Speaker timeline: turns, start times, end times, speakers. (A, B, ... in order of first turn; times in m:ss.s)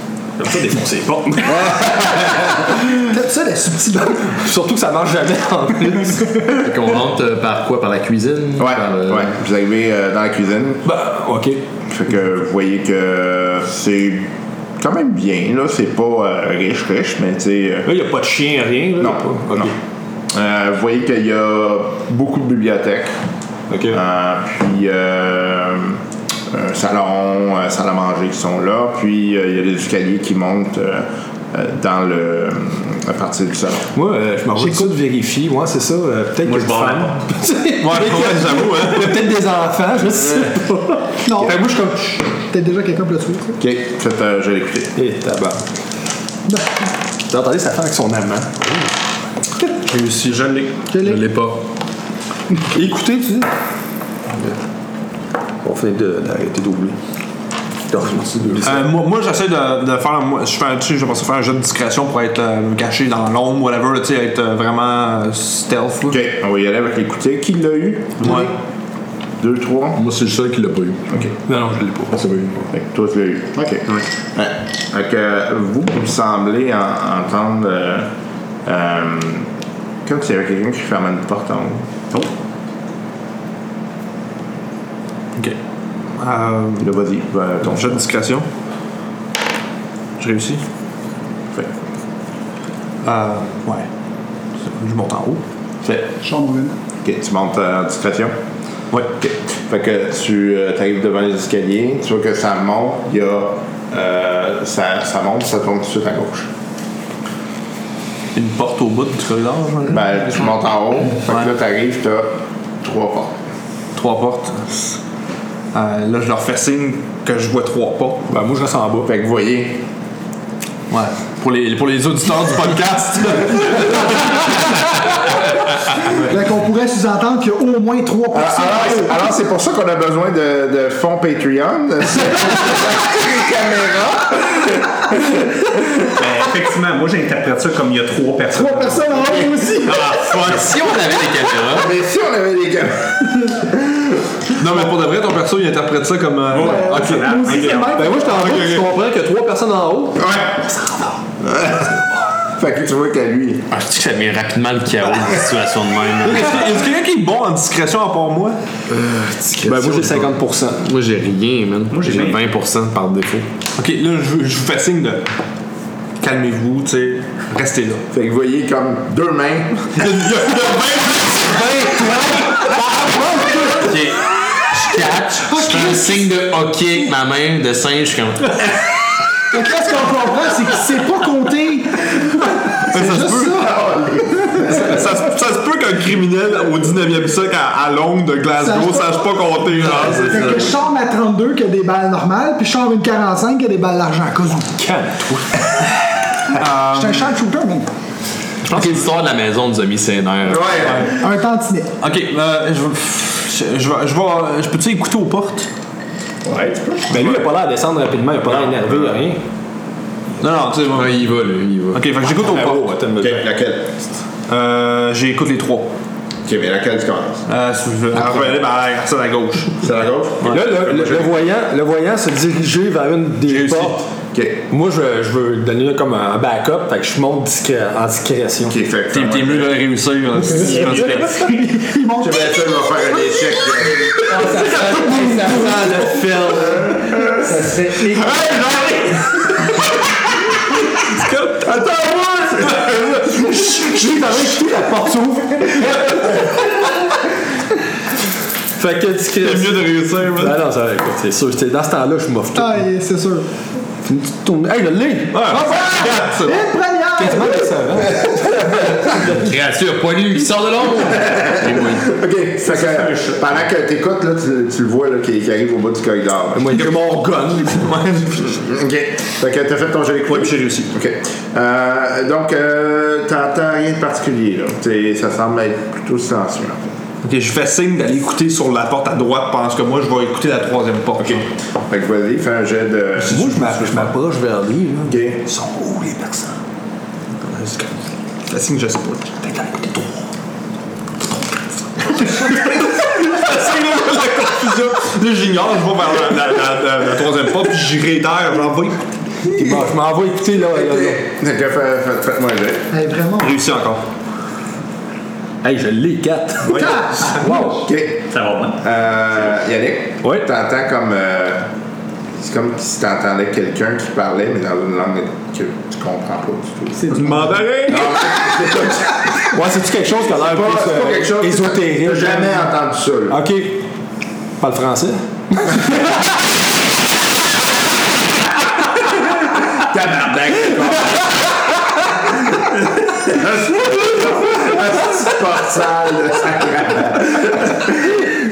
0:00.4-0:06.6 A
0:03.1-0:04.2 B
0:06.6-0:09.3 C
0:08.6-0:10.8 D
0:10.8-0:11.6 A
0:11.9-0:17.9 D
0:17.8-0:19.7 A
0:19.0-0:19.7 D
0:20.3-0:23.2 D
0:23.7-0:24.0 A
0:23.9-0:26.0 D
0:26.5-0:33.9 D
0:34.0-0:42.2 A
0:34.6-0:34.9 B
0:36.4-0:37.2 E
0:37.8-0:39.3 F
0:41.2-0:41.7 B
0:42.4-0:43.6 B
0:43.6-0:44.9 D
0:45.0-0:45.6 A
0:47.3-0:48.9 A
0:49.9-0:50.7 F
0:50.9-0:51.2 B
0:51.0-0:51.6 C
0:52.7-0:53.5 A
0:55.6-0:57.0 A
0:57.9-0:58.9 A
0:58.3-0:58.7 C
0:58.6-1:06.2 F
1:06.1-1:08.4 D
1:08.2-1:08.5 F
1:09.4-1:10.0 D
1:10.0-1:11.0 C
1:11.5-1:12.2 A
1:12.1-1:12.6 C
1:12.7-1:18.1 D
1:18.6-1:19.5 D
1:20.0-1:21.9 D
1:26.2-1:27.0 F
1:26.8-1:28.0 D
1:27.6-1:28.5 F
1:30.2-1:30.6 F
1:33.0-1:33.9 F
1:34.6-1:35.4 F
1:36.2-1:36.8 B
1:37.0-1:38.4 D
1:39.2-1:46.5 D
1:48.4-1:50.4 F
1:49.9-1:53.4 D
1:51.3-1:51.5 F
1:54.0-1:55.0 F
1:55.7-1:58.3 F
1:58.3-1:59.1 A
1:59.0-1:59.8 D
2:00.9-2:04.8 A
2:02.3-2:04.3 F
2:06.1-2:09.3 B
2:08.3-2:16.0 D
2:16.2-2:19.5 E
2:18.5-2:20.4 B
2:19.8-2:21.9 C
2:21.7-2:24.2 D
2:24.6-2:28.9 F
2:26.5-2:28.1 E
2:26.5-2:28.5 B
2:28.0-2:30.3 A
2:30.2-2:30.7 D
2:31.4-2:32.0 D
2:32.6-2:33.6 D
2:33.7-2:36.8 C
2:36.2-2:38.6 F
2:38.9-2:43.5 C
2:39.6-2:40.9 A
2:41.9-2:42.5 E
2:43.8-2:45.2 F
2:46.2-2:48.0 F
2:48.1-2:50.0 D
2:49.9-2:52.7 F
2:51.5-2:53.9 A
2:53.1-2:53.9 B
2:54.8-2:58.6 C
2:55.5-2:56.3 B
2:59.5-3:02.3 B
3:02.9-3:03.7 F
3:02.9-3:04.9 B
3:03.6-3:04.4 D
3:04.6-3:10.7 F
3:08.6-3:09.5 B
3:09.9-3:10.7 C
3:10.2-3:14.7 B
3:14.8-3:15.5 A
3:16.6-3:17.3 F
3:16.6-3:17.9 B
3:18.7-3:20.9 C
3:18.7-3:19.0 F
3:20.5-3:21.2 D
3:20.8-3:21.2 F
3:21.2-3:21.9 B
3:22.0-3:25.7 F
3:26.4-3:27.2 D
3:27.1-3:29.4 A
3:27.1-3:27.5 F
3:28.4-3:29.2 D
3:30.4-3:31.2 F
3:30.9-3:32.0 C
3:31.9-3:33.1 F
3:32.4-3:33.4 A
3:33.2-3:33.9 D
3:34.5-3:35.9 F
3:36.4-3:37.4 D
3:37.5-3:41.5 F
3:39.8-3:40.7 D
3:40.4-3:44.1 A
3:43.4-3:44.0 F
3:44.3-3:44.6 D
3:44.7-3:48.8 A
3:48.7-3:49.8 D
3:49.1-3:51.5 F
3:50.5-3:52.5 B
3:52.2-3:54.2 D
3:54.2-3:56.2 B
3:54.4-3:57.3 A
3:57.3-3:58.4 B
3:58.6-3:59.2 F
4:01.1-4:03.9 F
4:01.7-4:02.0 A
4:02.5-4:06.9 A
4:08.8-4:12.8 A
4:09.4-4:10.6 F
4:12.6-4:13.5 B
4:14.1-4:16.0 A
4:15.3-4:16.7 F
4:15.6-4:18.0 B
4:17.2-4:19.5 A
4:19.2-4:22.1 C
4:21.3-4:26.8 D
4:22.7-4:23.4 E
4:26.5-4:27.9 A
4:26.7-4:28.6 F
4:28.5-4:37.0 D
4:30.3-4:30.9 F
4:37.2-4:41.5 F
4:41.2-4:43.6 D
4:43.2-4:44.1 F
4:43.3-4:46.5 A
4:45.0-4:45.4 D
4:47.4-4:47.9 F
4:48.5-4:49.9 F
4:49.5-4:50.0 A
4:52.0-4:59.0 F
4:59.5-5:01.2 A
5:00.7-5:02.9 D
5:02.9-5:03.6 B
5:03.4-5:04.0 F
5:05.6-5:07.9 A
5:06.6-5:07.5 F
5:06.8-5:07.3 B
5:07.6-5:08.2 D
5:08.3-5:08.8 E
5:08.8-5:11.7 D
5:12.4-5:17.2 D
5:17.0-5:17.6 B
5:17.1-5:18.2 F
5:17.9-5:19.6 D
5:19.4-5:22.7 A
5:20.3-5:23.4 D
5:23.3-5:23.9 A
5:24.6-5:26.2 A
5:29.8-5:31.3 D
5:33.2-5:37.9 D